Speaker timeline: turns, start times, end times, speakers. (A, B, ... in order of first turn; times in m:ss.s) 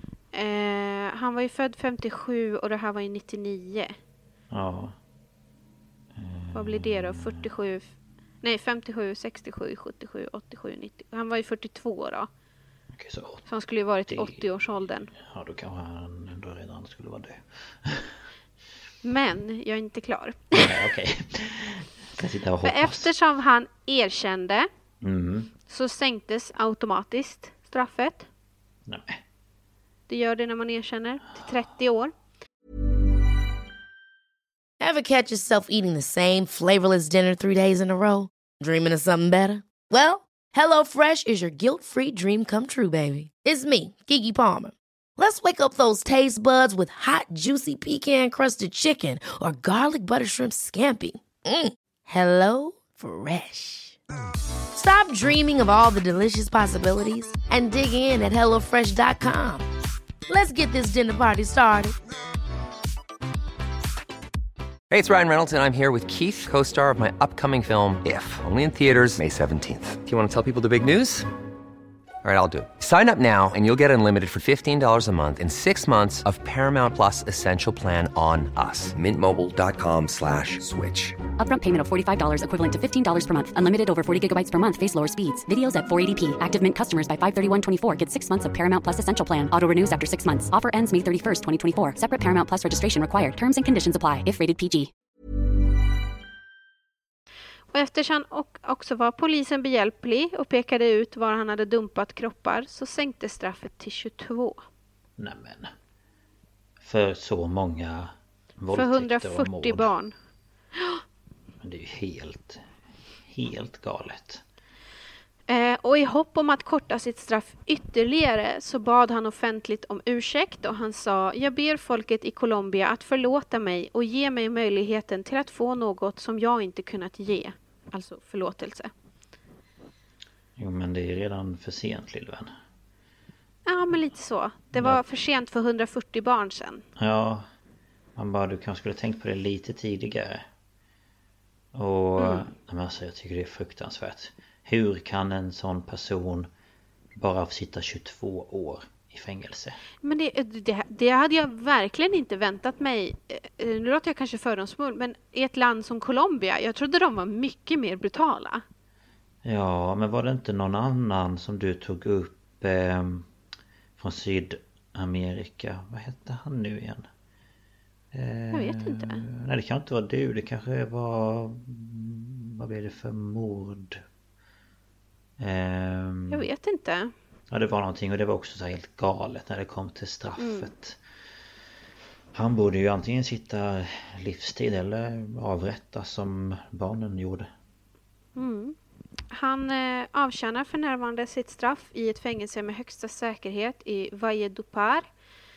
0:00.3-0:03.9 A
0:04.5-0:05.0 B
0:06.1-0:07.4 B
0:06.5-0:07.9 A
0:08.4-0:12.3 A
0:12.9-0:13.4 B
0:13.5-0:15.1 A
0:14.1-0:14.4 B
0:15.1-0:18.2 B
0:19.0-0:20.8 A
0:20.5-0:23.1 B
0:22.6-0:24.6 A
0:25.0-0:25.5 B
0:25.7-0:28.3 A
0:28.8-0:29.2 B
0:30.1-0:32.1 A
0:34.8-0:54.0 C
0:54.7-0:59.6 C
1:00.3-1:02.0 C
1:04.9-1:11.3 D
1:12.2-1:21.2 D
1:21.4-1:34.9 E
1:37.7-1:44.6 A
1:45.2-1:45.7 B
1:46.8-1:49.9 B
1:48.7-1:50.1 A
1:50.8-1:51.0 A
1:51.6-1:52.6 B
1:53.2-1:54.4 B
1:55.5-2:08.9 A
2:10.6-2:12.5 B
2:13.7-2:16.8 A
2:14.7-2:15.0 B
2:17.0-2:17.4 B
2:18.2-2:20.4 B
2:21.7-2:26.5 B
2:22.2-2:22.5 A
2:27.1-2:29.8 B
2:30.0-2:38.6 A
2:39.4-2:43.3 B
2:44.0-2:47.1 B
2:48.1-2:54.0 B
2:48.5-2:49.2 A
2:55.4-2:56.4 B
2:56.3-2:57.1 A
2:57.5-3:01.0 B
3:00.4-3:00.7 A
3:02.3-3:07.5 B
3:08.4-3:08.8 A
3:09.3-3:15.0 A